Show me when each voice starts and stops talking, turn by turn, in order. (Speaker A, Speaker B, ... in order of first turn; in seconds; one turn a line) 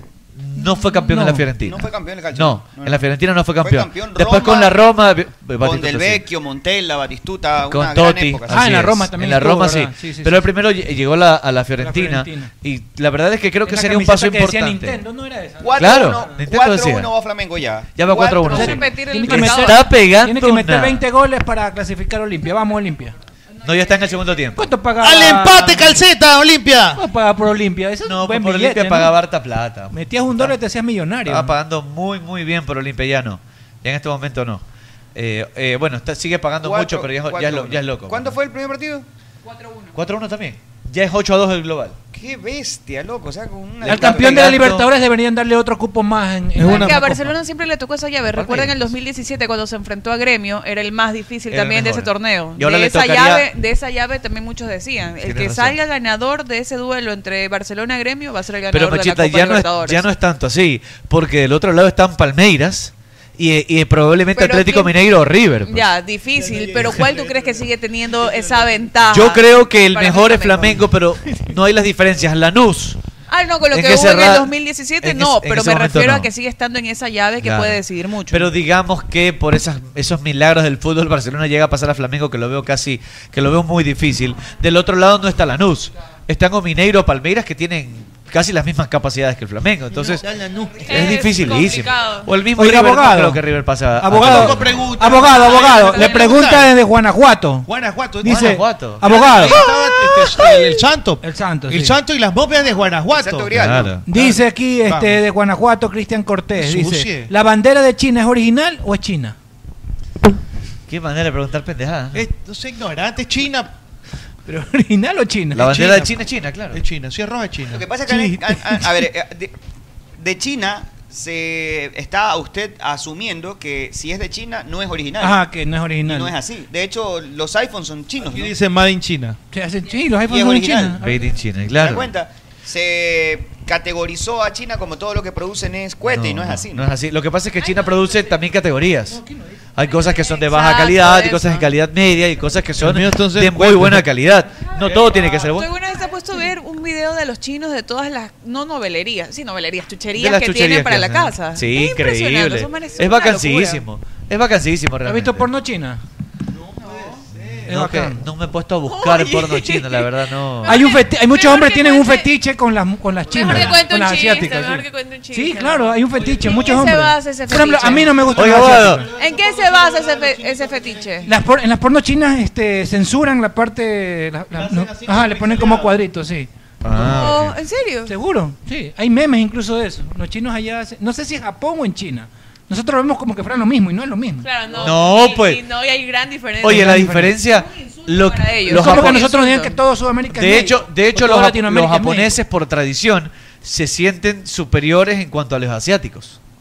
Speaker A: 0.3-6.2
Speaker B: 0.6-1.5
Speaker C: 1.6-4.8
Speaker C: 5.6-8.8
Speaker A: 7.7-15.0
Speaker B: 8.5-10.5
Speaker B: 11.8-12.5
Speaker B: 13.6-16.3
Speaker C: 15.6-18.9
Speaker A: 15.7-17.1
Speaker A: 17.9-21.0
Speaker D: 18.5-19.9
Speaker B: 18.5-23.1
Speaker A: 23.6-24.7
Speaker B: 24.5-26.0
Speaker E: 25.0-27.0
Speaker B: 26.9-29.2
Speaker A: 28.0-30.6
Speaker B: 29.9-31.6
Speaker A: 31.2-34.6
Speaker A: 35.1-38.4
Speaker C: 36.6-39.0
Speaker D: 39.5-39.9
Speaker A: 39.9-42.0
Speaker C: 42.1-44.7
Speaker A: 43.8-44.9
Speaker B: 43.8-47.3
Speaker E: 46.6-47.1
Speaker D: 46.7-60.0
Speaker A: 48.3-48.8
Speaker A: 51.5-53.5
Speaker A: 55.2-55.8
Speaker A: 58.7-65.9
Speaker D: 64.3-64.9
Speaker D: 65.6-70.8
Speaker E: 66.3-69.0
Speaker A: 69.1-73.0
Speaker D: 73.3-78.5
Speaker A: 73.7-76.3
Speaker A: 77.4-90.2
Speaker E: 89.9-91.1
Speaker F: 90.8-92.3
Speaker A: 90.8-94.8
Speaker B: 92.5-93.4
Speaker B: 94.0-97.7
Speaker E: 94.1-96.7
Speaker F: 95.2-96.4
Speaker E: 97.7-105.2
Speaker B: 98.2-99.7
Speaker A: 98.2-99.1
Speaker B: 101.2-102.0
Speaker C: 103.1-104.0
Speaker A: 103.5-104.0
Speaker B: 104.0-109.3
Speaker E: 106.5-107.3
Speaker A: 110.9-112.2
Speaker E: 112.1-113.7
Speaker B: 114.5-116.1
Speaker A: 115.5-116.8
Speaker E: 116.7-117.8
Speaker C: 117.7-119.5
Speaker B: 118.0-119.0
Speaker C: 120.2-125.4
Speaker B: 125.2-126.3
Speaker C: 126.0-128.5
Speaker E: 128.2-129.4
Speaker B: 129.5-131.3
Speaker C: 130.2-131.0
Speaker A: 131.0-132.1
Speaker C: 131.7-136.9
Speaker A: 136.1-139.2
Speaker B: 139.1-139.4
Speaker A: 139.7-145.7
Speaker D: 140.3-141.7
Speaker E: 142.8-144.1
Speaker E: 144.8-145.4
Speaker D: 145.5-153.8
Speaker A: 150.1-155.5
Speaker B: 155.0-156.0
Speaker E: 156.5-157.7
Speaker D: 156.9-157.2
Speaker A: 157.7-160.8
Speaker B: 157.7-158.2
Speaker F: 158.9-160.0
Speaker F: 160.6-162.3
Speaker B: 160.7-169.1
Speaker F: 163.3-166.2
Speaker E: 163.3-163.8
Speaker E: 166.1-166.9
Speaker D: 166.4-168.3
Speaker E: 167.9-171.3
Speaker A: 168.3-169.1
Speaker D: 169.1-171.3
Speaker B: 171.2-176.5
Speaker E: 174.5-176.0
Speaker A: 176.8-177.6
Speaker E: 176.9-177.2
Speaker D: 177.0-178.1
Speaker B: 178.1-184.5
Speaker F: 184.4-187.1
Speaker A: 184.8-185.6
Speaker A: 186.6-189.3
Speaker B: 186.7-187.4
Speaker D: 187.4-189.7
Speaker B: 188.7-192.4
Speaker A: 190.3-196.4